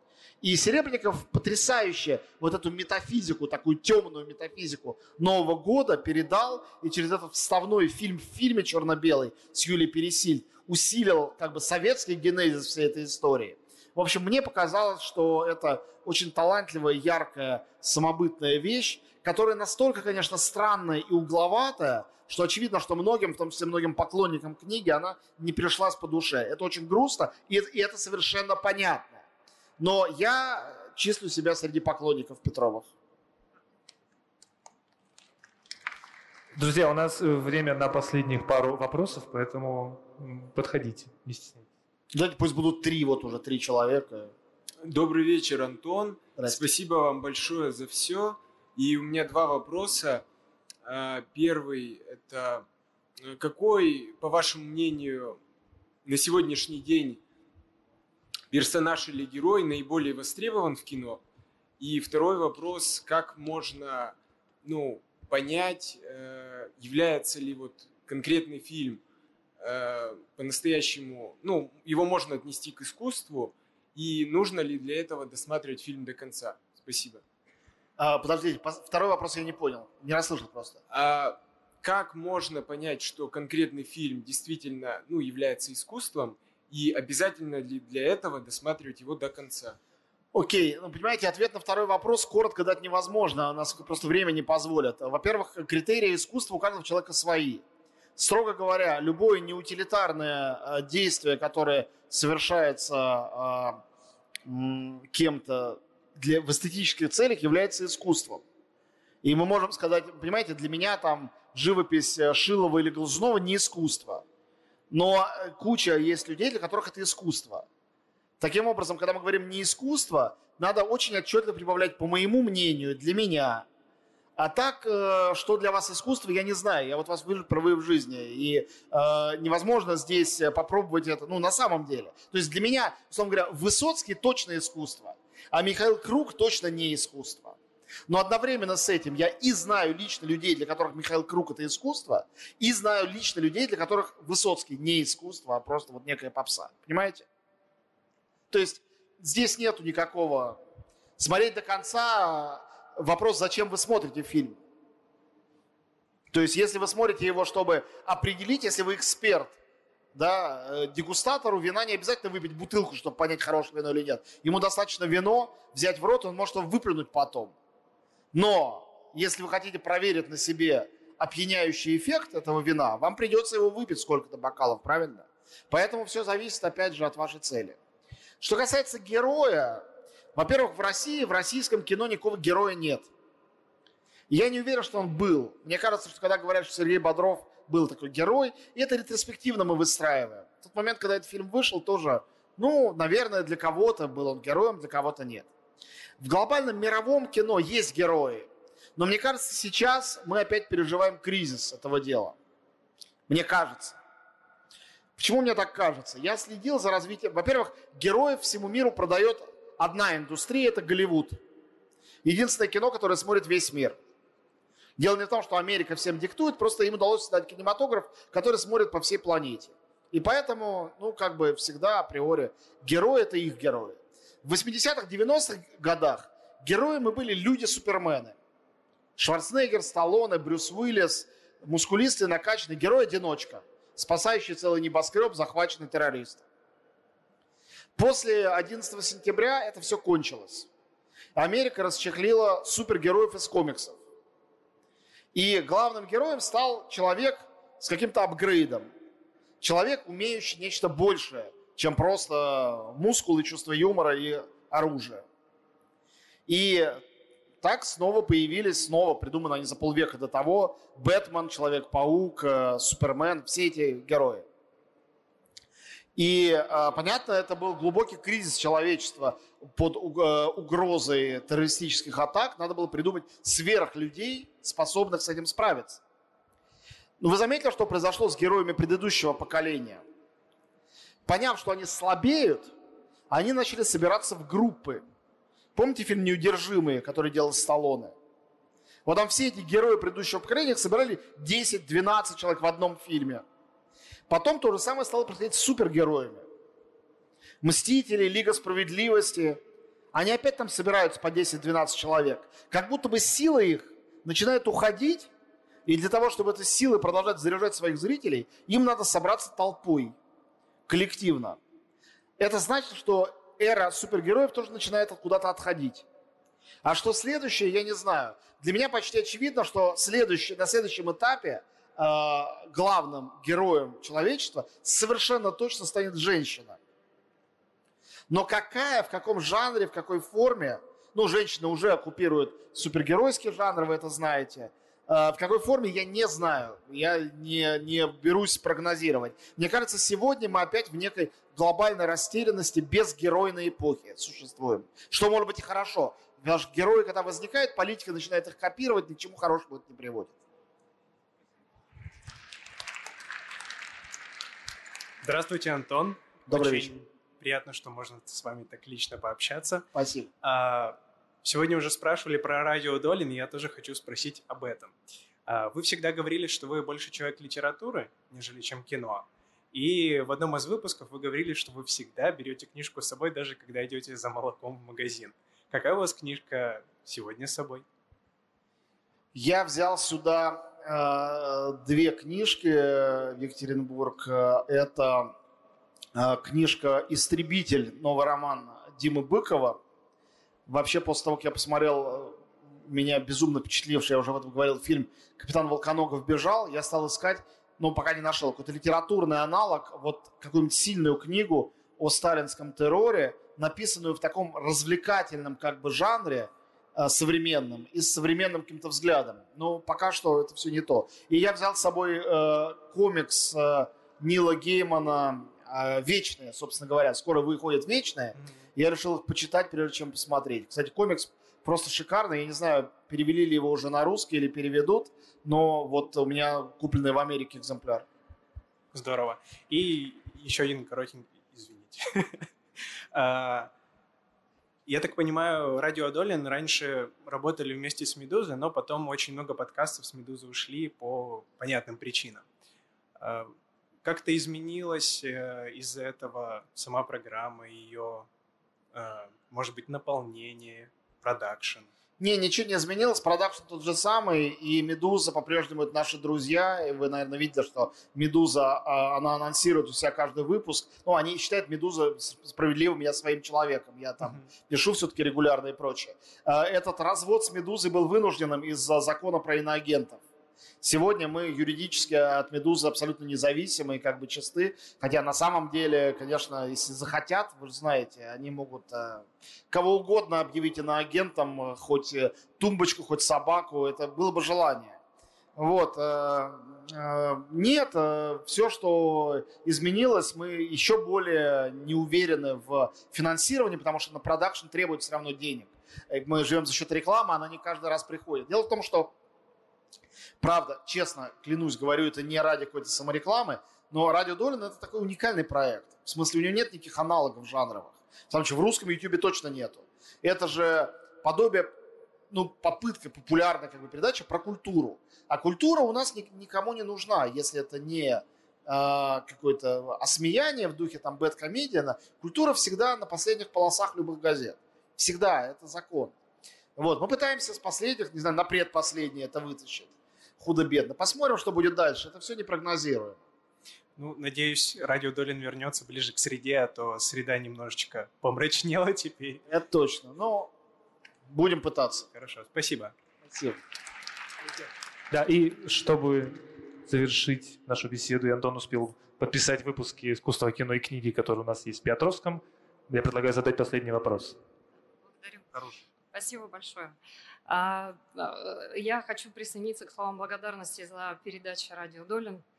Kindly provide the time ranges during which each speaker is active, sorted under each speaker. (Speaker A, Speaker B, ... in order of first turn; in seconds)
Speaker A: 0.4-29.2, 29.8-32.9, 42.1-44.3, 46.4-46.6, 78.0-80.8, 90.3-97.6, 98.2-103.8, 104.5-108.4, 109.2-114.2, 114.9-117.7, 118.4-123.7, 124.4-137.6, 138.1-147.2, 148.5-150.6, 151.2-154.6, 156.3-159.6, 160.1-167.5, 168.3-177.8, 178.4-183.1, 184.3-195.5, 196.2-202.4, 203.3-204.0, 205.2-211.4, 212.2-214.0, 215.0-228.4, 229.2-236.5, 238.0-240.7, 241.4-244.0, 245.3-248.9, 249.6-255.3, 256.5-257.0, 257.6-264.5, 266.2-276.0, 277.2-280.0, 281.3-282.7, 283.3-285.0, 285.8-288.1, 289.1-293.4, 294.3-296.5, 297.6-299.6, 300.1-305.3, 305.9-310.1, 310.9-311.6, 312.4-316.1, 316.8-326.8, 328.3-350.3, 356.5-356.9, 359.9-360.3, 379.3-385.3, 386.1-389.8, 390.7-428.1, 452.2-470.2, 470.8-485.0, 485.6-499.1, 500.4-511.7, 512.3-526.1, 526.8-533.2, 539.5-540.5, 541.3-542.1, 543.3-543.6
Speaker B: 36.5-41.7, 545.1-554.4
Speaker C: 44.8-50.2, 50.8-52.7, 53.2-55.4, 56.0-57.2, 58.5-61.2, 61.8-69.0, 69.6-77.2, 80.9-89.8
Speaker D: 355.2-359.9, 360.4-364.9, 365.5-377.9, 418.3-418.6, 428.9-432.5, 433.1-433.7, 434.9-442.5, 443.2-443.5, 444.0-448.3, 448.9-451.9, 534.0-539.4, 542.1-543.0
Speaker E: 555.0-557.0, 557.5-562.5